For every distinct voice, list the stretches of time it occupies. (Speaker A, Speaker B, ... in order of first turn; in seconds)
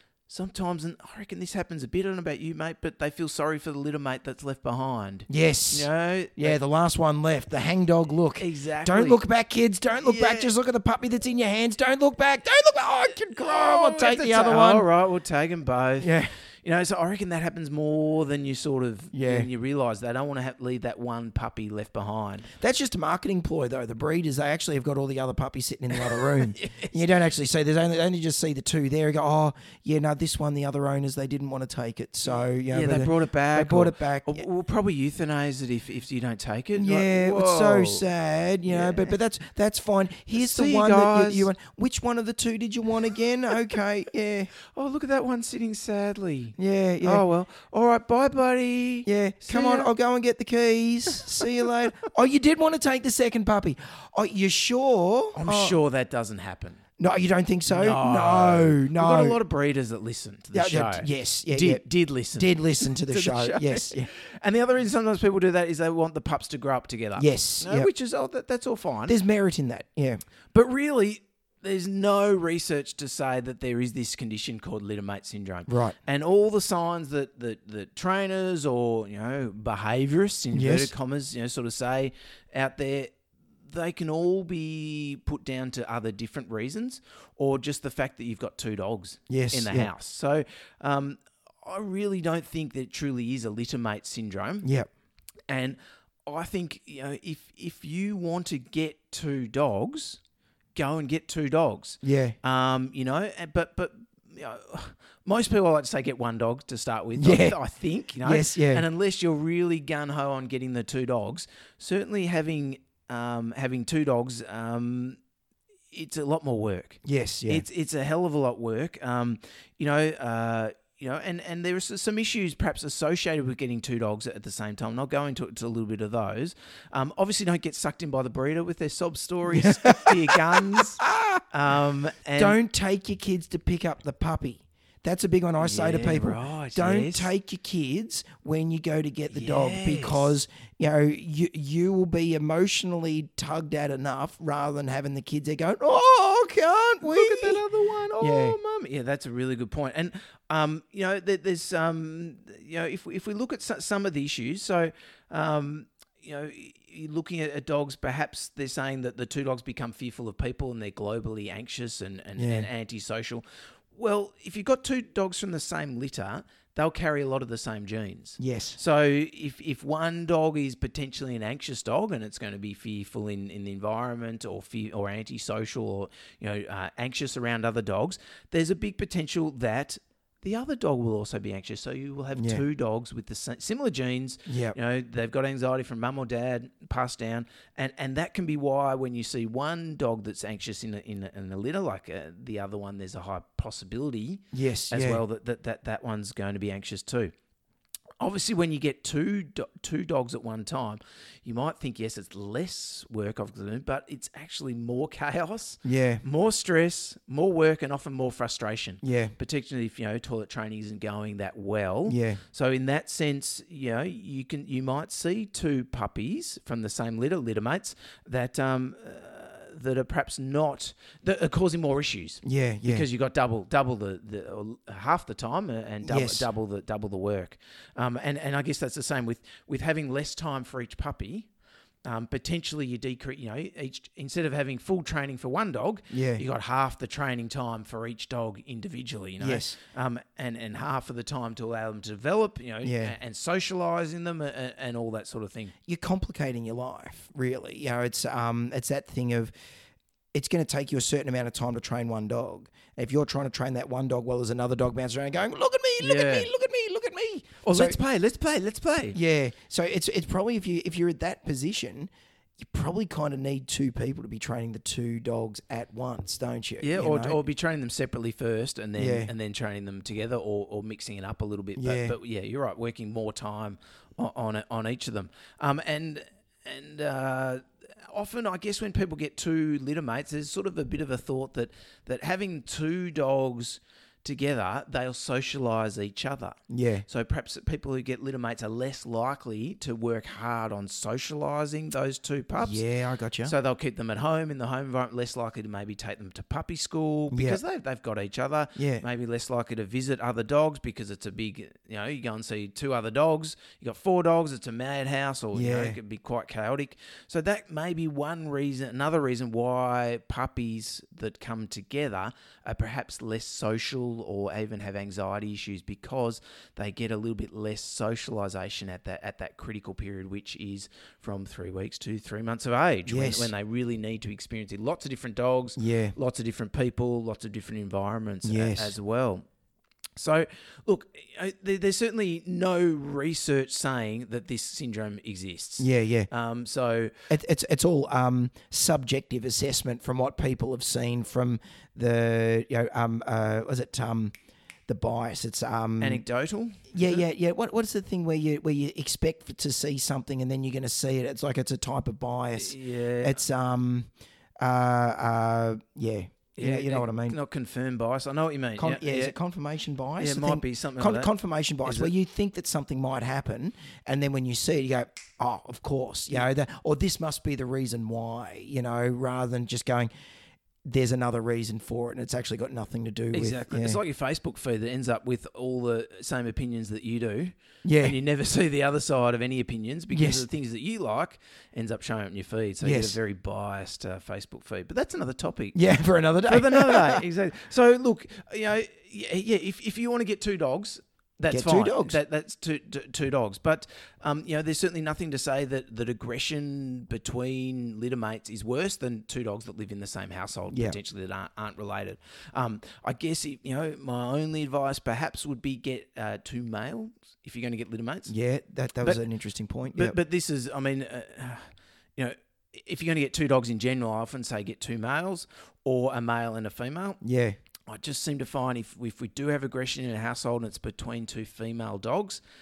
Speaker A: 0.3-6.6, 8.4-9.2, 10.0-10.5, 13.3-22.5, 26.1-26.9, 32.7-38.0, 38.7-39.1, 40.4-41.5, 44.7-49.9, 55.3-56.8, 57.7-69.2, 70.5-83.1, 83.7-94.7, 95.5-100.2, 100.8-115.2, 115.9-132.6, 135.6-137.3, 139.3-140.3, 147.0-197.3, 198.2-231.5, 232.1-245.7, 256.0-256.5, 257.6-259.2, 266.8-292.8, 293.4-329.4, 330.2-337.3, 346.0-347.2, 352.6-353.4, 356.6-359.3, 360.2-361.3, 361.8-362.1, 373.3-385.8, 386.5-408.3, 409.9-417.2, 417.9-422.4
Speaker B: 5.3-14.9, 16.0-16.3, 19.1-19.5, 22.6-34.5, 36.8-44.5, 46.6-47.2, 49.1-55.8, 57.0-59.4, 60.5-61.8, 62.4-64.1, 67.2-67.9, 69.1-70.2, 75.7-76.0, 80.5-80.9, 89.3-89.9, 94.6-94.9, 102.0-102.4, 107.2-107.6, 108.2-108.8, 117.0-117.7, 129.5-131.4, 132.4-147.6, 148.2-148.6, 162.4-162.7, 168.4-168.8, 182.3-182.6, 184.5-184.8, 194.5-195.2, 205.8-206.2, 209.0-209.3, 212.1-212.4, 222.4-223.1, 226.1-226.5, 236.1-236.4, 239.4-239.8, 242.8-243.2, 245.9-249.5, 250.3-258.0, 259.1-267.4, 269.0-269.3, 271.8-272.1, 286.7-287.1, 292.6-293.5, 297.3-297.6, 298.8-299.0, 305.5-306.0, 323.1-323.5, 325.8-326.1, 328.4-329.0, 335.8-336.3, 337.3-344.3, 344.9-346.2, 346.9-354.1, 354.6-357.4, 358.8-370.1, 370.8-374.0, 377.8-378.2, 380.1-380.5, 382.8-383.2, 385.7-387.2, 391.5-392.2, 400.7-401.0, 408.3-410.2, 417.2-417.6